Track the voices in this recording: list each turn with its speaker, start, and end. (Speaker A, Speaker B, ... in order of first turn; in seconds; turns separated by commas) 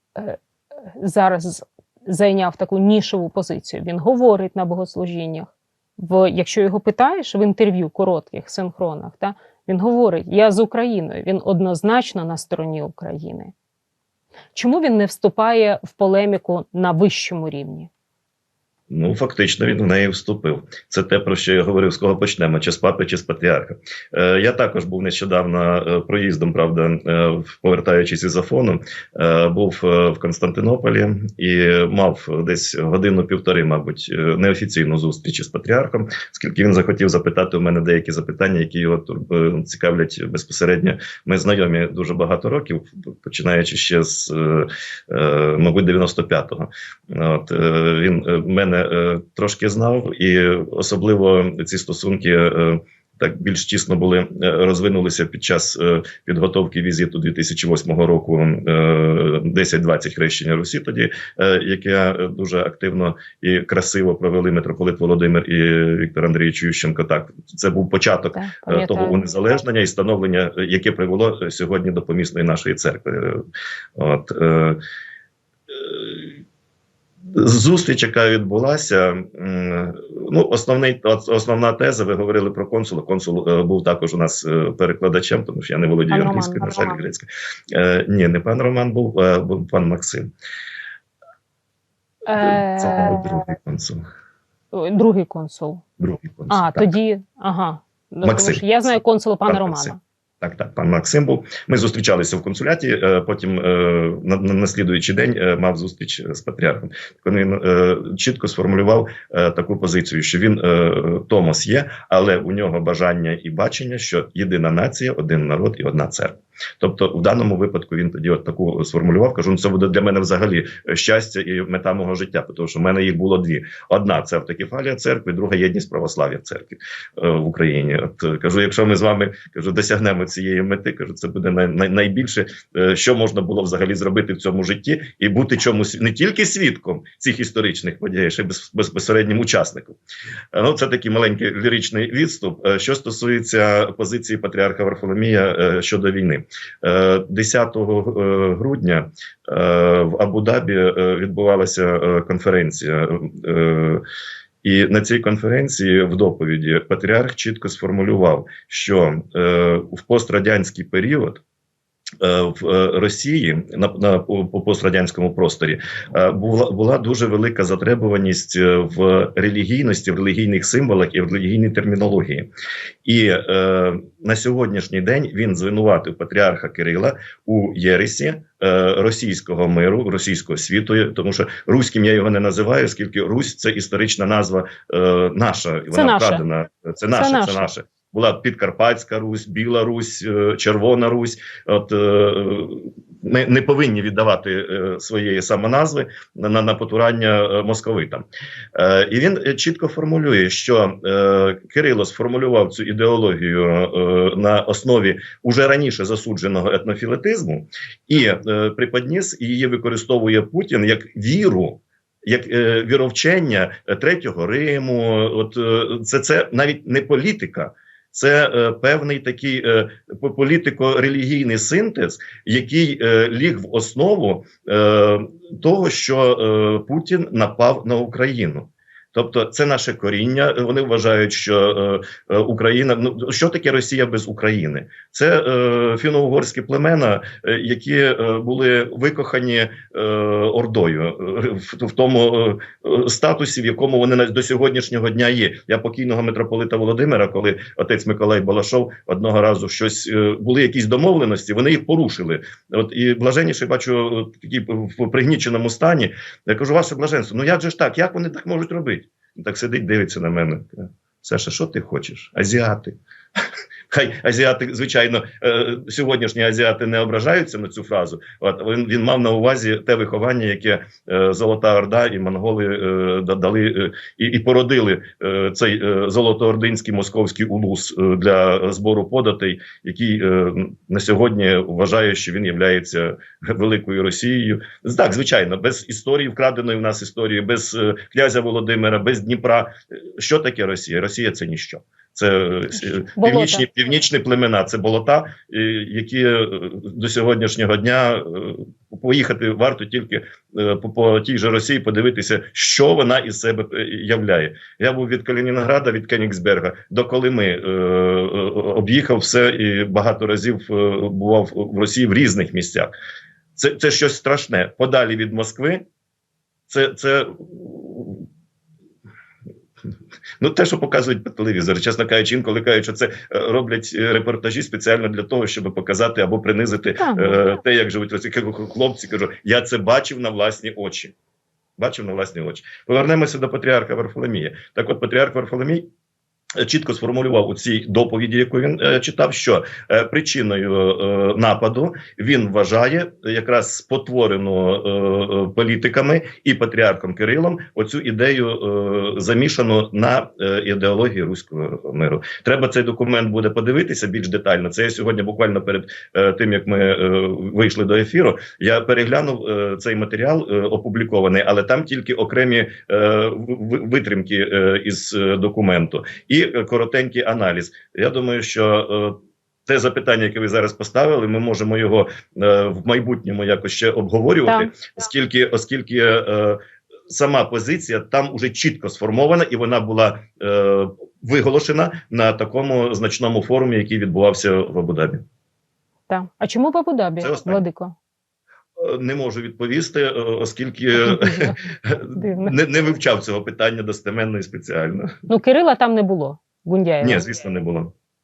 Speaker A: 0.9-13.5, Speaker A: 14.5-17.9, Speaker B: 18.9-73.4, Speaker A: 68.3-69.2, Speaker B: 74.0-74.8, Speaker B: 75.7-76.4, Speaker B: 77.3-90.3, Speaker A: 86.1-87.0, Speaker A: 92.2-93.4, Speaker B: 92.3-94.0, Speaker A: 94.7-95.8, Speaker B: 96.0-96.9, Speaker A: 96.5-100.0, Speaker B: 98.2-98.9, Speaker B: 99.5-140.0, Speaker B: 140.5-154.0, Speaker B: 154.6-161.4, Speaker B: 162.2-172.5, Speaker B: 173.0-262.9, Speaker A: 185.9-186.4, Speaker A: 187.1-187.7, Speaker B: 263.9-312.9, Speaker A: 293.0-293.6, Speaker B: 313.6-315.8, Speaker B: 316.7-318.2, Speaker B: 320.4-331.1, Speaker A: 327.0-327.4, Speaker B: 331.8-335.9, Speaker B: 336.6-369.1, Speaker B: 369.6-385.2, Speaker A: 374.5-374.7, Speaker A: 386.1-387.9, Speaker B: 387.2-387.6, Speaker B: 388.8-395.2, Speaker A: 390.9-392.6, Speaker A: 395.3-397.2, Speaker B: 397.0-397.9